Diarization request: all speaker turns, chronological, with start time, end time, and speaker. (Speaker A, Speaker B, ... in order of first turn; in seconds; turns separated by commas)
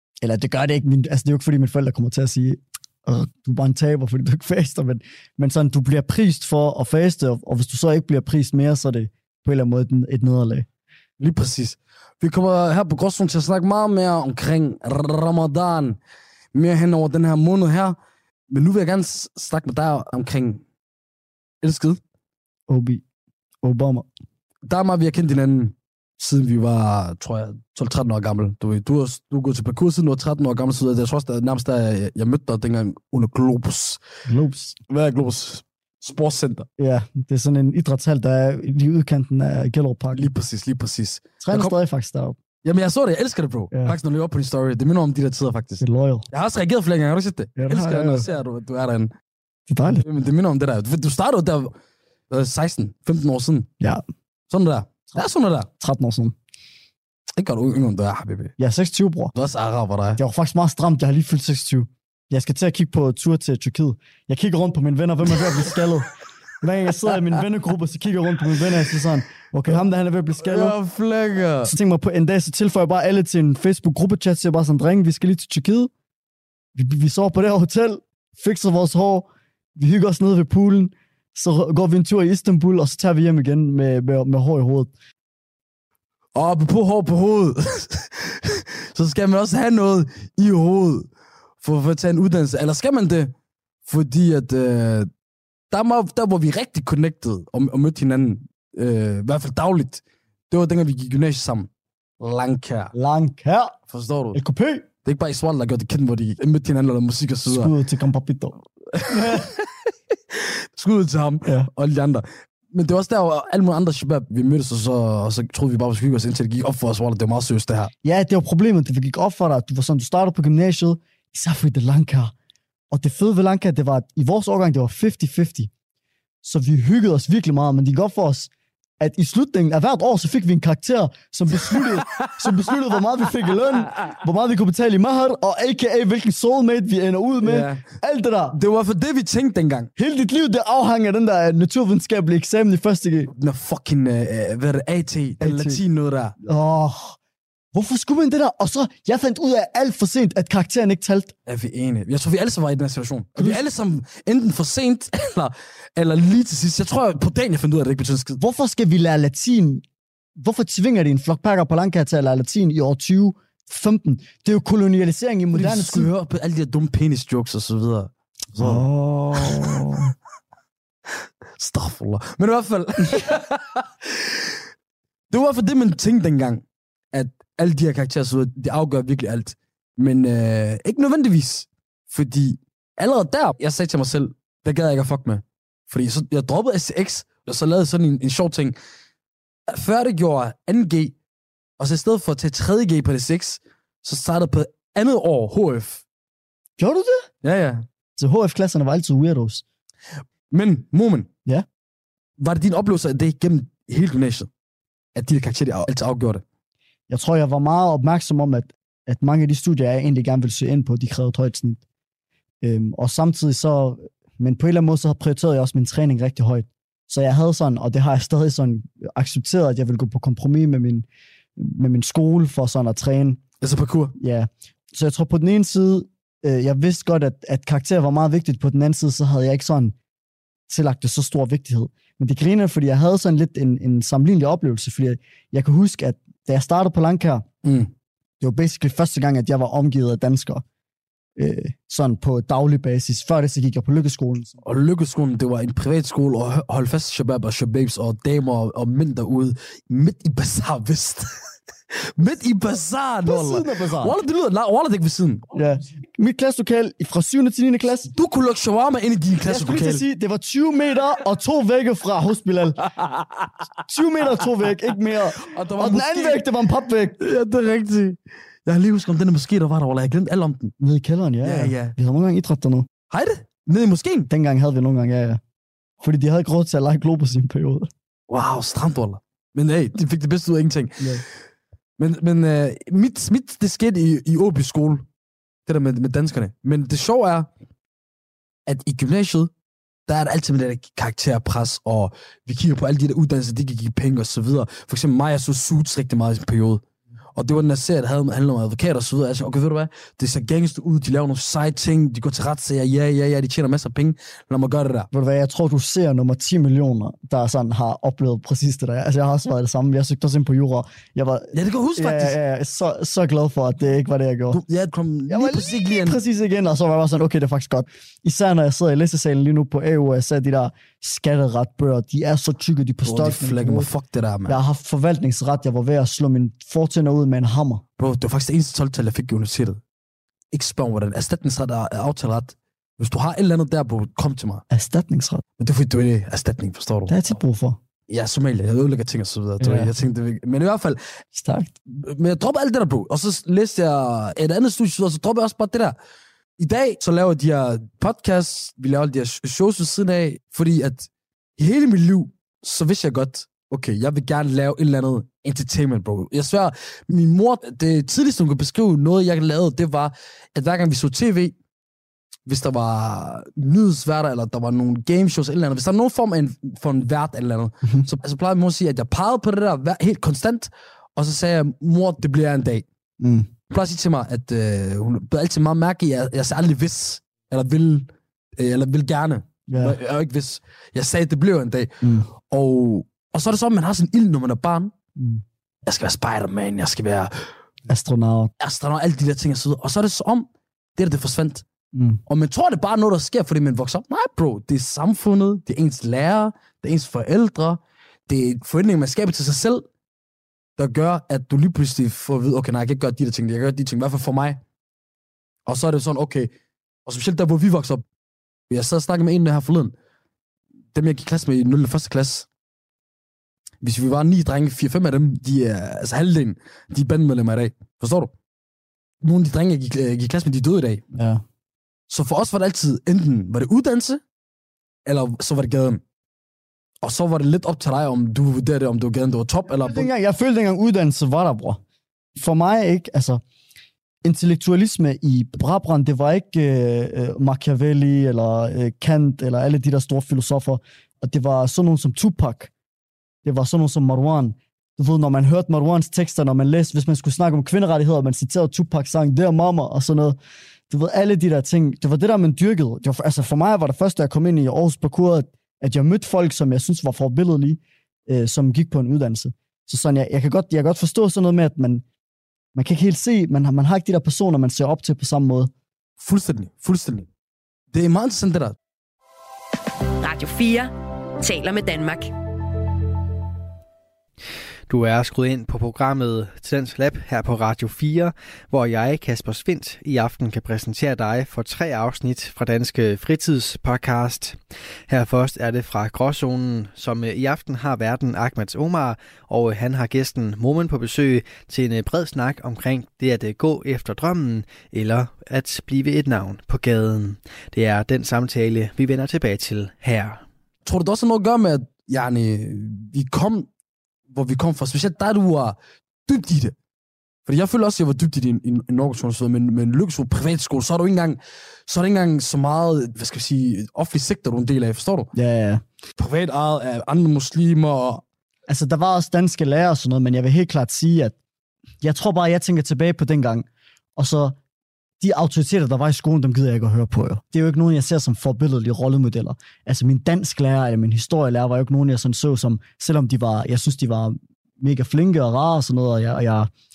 Speaker A: 0.2-10.7, Speaker B: 11.2-16.0, Speaker B: 16.5-18.0, Speaker B: 18.5-20.6, Speaker B: 21.6-22.0, Speaker A: 22.7-23.0, Speaker A: 23.6-24.1, Speaker B: 24.6-34.0, Speaker A: 34.3-34.8, Speaker B: 34.9-36.7, Speaker A: 36.8-40.3, Speaker B: 40.1-41.7, Speaker A: 41.4-42.4, Speaker B: 42.6-49.1, Speaker A: 45.8-46.3, Speaker A: 47.6-48.3, Speaker A: 49.7-50.0, Speaker B: 49.9-51.8, Speaker B: 52.3-53.7, Speaker B: 54.5-55.7, Speaker A: 55.8-56.4, Speaker B: 57.4-58.5, Speaker A: 58.6-59.3, Speaker B: 59.3-60.2, Speaker A: 60.2-70.8, Speaker B: 65.3-65.9, Speaker B: 70.4-71.7, Speaker A: 71.6-75.9, Speaker A: 76.8-84.9, Speaker B: 86.3-91.1, Speaker B: 91.6-93.3, Speaker B: 93.9-95.1, Speaker B: 95.7-102.9, Speaker A: 102.9-103.8, Speaker B: 103.9-104.4, Speaker A: 104.3-104.8, Speaker B: 105.0-107.7, Speaker A: 107.5-108.6, Speaker B: 108.9-109.7, Speaker A: 109.1-109.5, Speaker B: 110.3-117.9, Speaker A: 118.0-122.3, Speaker A: 122.9-125.7, Speaker A: 126.4-138.6, Speaker B: 131.6-132.8, Speaker B: 137.4-137.8, Speaker B: 138.5-139.9, Speaker A: 140.0-143.3, Speaker B: 143.3-146.4, Speaker A: 145.4-145.8, Speaker A: 146.4-147.2, Speaker A: 147.7-151.3, Speaker B: 151.5-158.4, Speaker A: 153.4-153.7, Speaker A: 158.4-159.8, Speaker A: 160.4-166.1, Speaker B: 165.5-169.8, Speaker A: 168.6-170.1, Speaker B: 171.6-174.6, Speaker B: 175.3-188.8, Speaker B: 189.7-191.2, Speaker B: 191.8-196.0, Speaker A: 196.8-197.3, Speaker B: 197.4-197.8, Speaker A: 198.2-199.6, Speaker B: 200.5-201.3, Speaker B: 202.4-204.5, Speaker B: 205.2-206.4, Speaker A: 207.1-211.8, Speaker A: 212.6-221.1, Speaker A: 221.6-223.4, Speaker B: 223.6-224.2, Speaker A: 224.2-229.9, Speaker A: 230.7-237.5, Speaker B: 237.6-237.9, Speaker A: 238.4-240.6, Speaker A: 241.4-244.6, Speaker B: 244.6-251.3, Speaker B: 251.9-255.5, Speaker A: 253.2-254.2, Speaker A: 255.5-258.1, Speaker B: 258.1-260.1, Speaker A: 259.5-262.8, Speaker B: 263.0-263.7, Speaker A: 263.9-267.2, Speaker B: 265.4-266.4, Speaker B: 267.2-270.7, Speaker A: 270.8-272.9, Speaker B: 271.4-271.9, Speaker B: 273.1-274.3, Speaker A: 274.3-275.4, Speaker A: 276.0-277.9, Speaker B: 278.3-281.2, Speaker B: 282.0-285.1, Speaker B: 285.7-287.5, Speaker B: 288.7-289.5, Speaker B: 290.1-296.8, Speaker B: 297.4-305.1, Speaker A: 305.1-314.6, Speaker B: 311.5-312.4, Speaker B: 314.5-316.2, Speaker A: 315.3-323.9, Speaker B: 323.0-324.6, Speaker A: 324.5-327.8, Speaker B: 328.0-329.8, Speaker B: 330.5-334.6, Speaker A: 334.7-335.4, Speaker B: 335.6-337.4, Speaker A: 337.1-337.8, Speaker B: 338.1-341.0, Speaker A: 339.6-339.9, Speaker A: 341.4-341.7, Speaker B: 341.9-346.0, Speaker B: 346.6-361.6, Speaker B: 362.5-372.9, Speaker A: 373.2-373.5, Speaker B: 373.7-384.9, Speaker A: 379.7-380.0, Speaker A: 382.0-382.3, Speaker A: 385.2-385.4, Speaker B: 385.9-387.5, Speaker A: 387.9-388.5, Speaker B: 388.6-391.6, Speaker A: 391.9-392.2, Speaker B: 392.3-399.9, Speaker B: 400.8-404.6, Speaker B: 405.7-406.5, Speaker B: 407.1-408.1, Speaker B: 408.7-409.9, Speaker B: 410.9-412.5, Speaker B: 413.8-418.3, Speaker B: 419.2-421.0, Speaker A: 421.2-421.4, Speaker B: 422.1-424.2, Speaker B: 425.1-426.0, Speaker B: 427.0-430.1, Speaker A: 429.7-431.8, Speaker A: 432.4-433.4, Speaker A: 434.2-442.7, Speaker A: 443.4-450.4, Speaker A: 450.9-462.0, Speaker A: 462.8-465.7, Speaker B: 466.2-467.3, Speaker B: 467.9-468.8, Speaker C: 470.2-472.3, Speaker D: 474.9-500.4, Speaker B: 500.9-503.7, Speaker B: 504.3-506.8, Speaker B: 507.5-515.3, Speaker A: 515.3-515.8, Speaker B: 516.2-518.2, Speaker A: 518.7-521.4, Speaker A: 522.0-524.6, Speaker A: 525.2-536.7